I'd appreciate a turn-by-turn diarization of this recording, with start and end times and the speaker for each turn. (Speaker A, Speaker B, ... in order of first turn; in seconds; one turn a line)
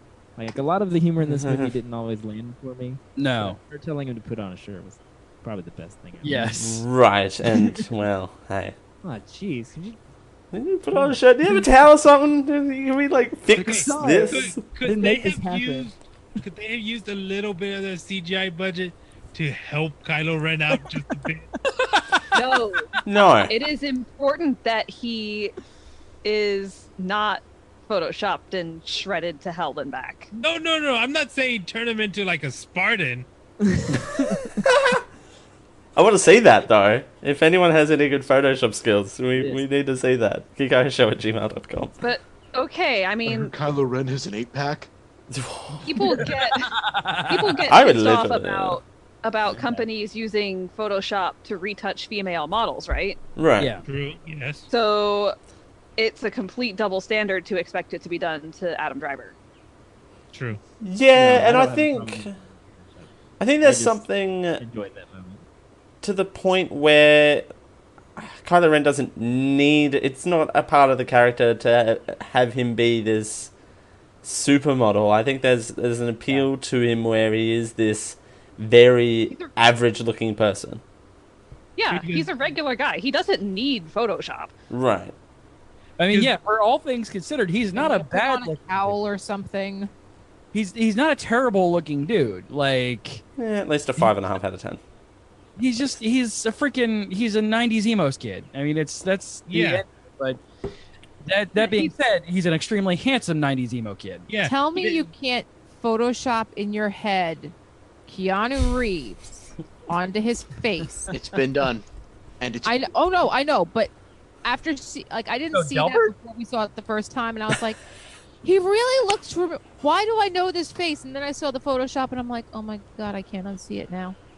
Speaker A: 0.4-6.5
Speaker B: 1.2-1.7
Speaker C: 3.2-3.6
Speaker C: 6.2-6.8
Speaker B: 6.5-8.8
Speaker A: 9.0-10.0
Speaker B: 10.5-14.7
Speaker A: 10.9-11.2
Speaker A: 13.5-15.9
Speaker D: 13.5-22.2
Speaker E: 22.3-22.9
Speaker B: 23.1-23.6
Speaker E: 23.5-25.5
Speaker E: 26.2-30.3
Speaker D: 30.4-33.3
Speaker A: 33.7-34.4
Speaker B: 36.0-42.0
Speaker A: 39.4-39.6
Speaker E: 42.0-43.5
Speaker F: 43.3-44.9
Speaker B: 45.3-46.2
Speaker E: 45.9-46.7
Speaker C: 46.2-47.6
Speaker E: 47.3-53.2
Speaker B: 47.7-48.8
Speaker B: 53.4-53.8
Speaker D: 53.8-54.7
Speaker E: 54.7-55.4
Speaker E: 56.0-59.4
Speaker D: 60.3-60.6
Speaker B: 60.8-62.3
Speaker A: 61.1-64.0
Speaker B: 63.4-64.6
Speaker A: 64.6-65.4
Speaker B: 66.0-67.5
Speaker B: 68.2-73.5
Speaker B: 74.2-80.8
Speaker E: 81.8-84.5
Speaker D: 81.9-82.3
Speaker B: 84.7-85.1
Speaker C: 86.0-89.0
Speaker G: 87.8-89.9
Speaker C: 90.5-93.2
Speaker B: 93.4-94.8
Speaker C: 95.6-100.4
Speaker D: 99.5-99.8
Speaker C: 101.2-104.3
Speaker E: 101.6-101.9
Speaker D: 104.3-105.1
Speaker G: 104.4-107.5
Speaker G: 108.1-111.1
Speaker F: 111.1-111.8
Speaker F: 112.4-112.9
Speaker G: 112.6-113.9
Speaker G: 114.4-117.8
Speaker C: 115.5-116.1
Speaker G: 118.4-124.2